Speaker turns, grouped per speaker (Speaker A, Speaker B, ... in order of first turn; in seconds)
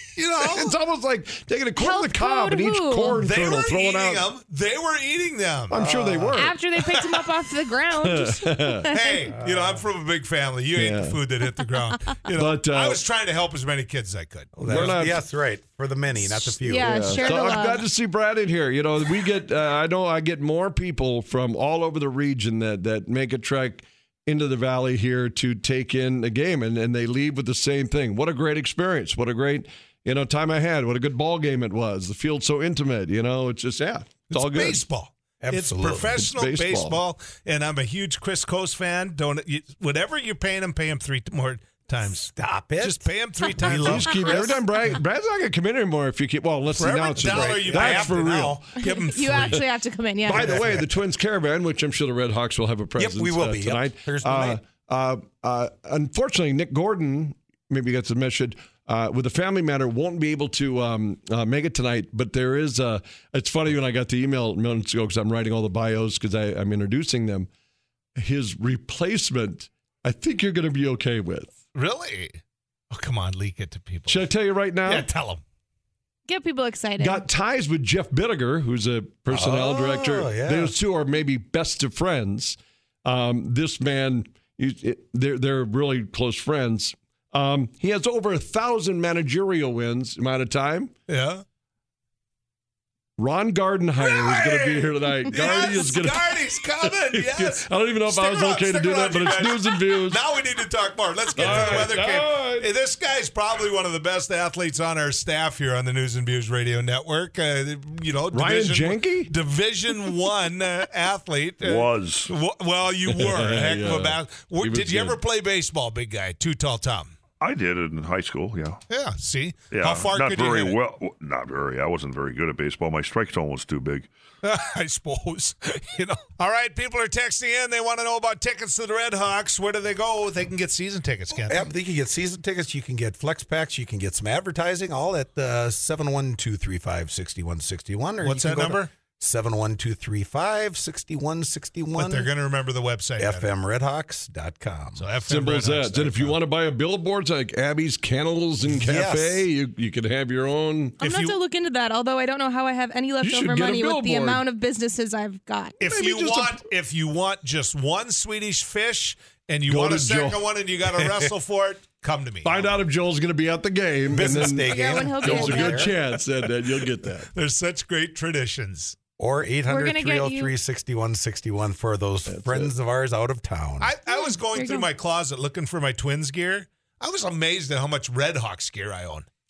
Speaker A: 0.1-0.8, 3.2-5.8, 6.8-7.3, 8.9-15.0, 34.3-44.4, 46.8-49.6, 71.7-72.4, 72.9-74.3, 74.8-75.4, 91.1-91.4, 94.0-117.1, 118.9-120.8, 124.4-131.7, 138.2-138.9, 141.9-143.5, 144.9-146.4, 151.0-151.4, 155.8-162.7, 167.2-168.9, 173.8-179.3
Speaker B: 0.4-4.3, 5.7-6.6, 8.0-8.9, 10.7-11.2, 12.3-13.0, 14.6-15.2, 16.7-34.8, 36.1-37.0, 43.7-48.5, 49.3-49.6, 50.2-67.5, 68.2-71.5, 74.1-75.1, 77.0-90.9, 93.2-100.2, 101.3-102.7, 108.3-109.3, 113.1-115.2, 145.3-150.9, 153.2-154.4, 155.8-156.6, 159.7-160.4, 162.4-167.3, 172.3-172.7
Speaker C: 1.8-3.3, 6.3-9.3, 16.6-17.9, 48.8-50.7, 76.3-77.2, 151.0-155.8, 164.2-165.9, 169.7-170.5, 174.1-174.8
Speaker D: 5.7-6.4, 9.3-9.8, 14.6-17.4, 35.4-36.2, 42.0-44.6, 47.1-48.8, 50.4-50.9, 53.0-54.6, 79.3-80.7, 131.3-142.3, 143.2-145.1, 148.7-149.4, 164.1-165.9, 169.2-173.9
Speaker E: 111.6-112.3, 117.4-118.8, 119.7-124.1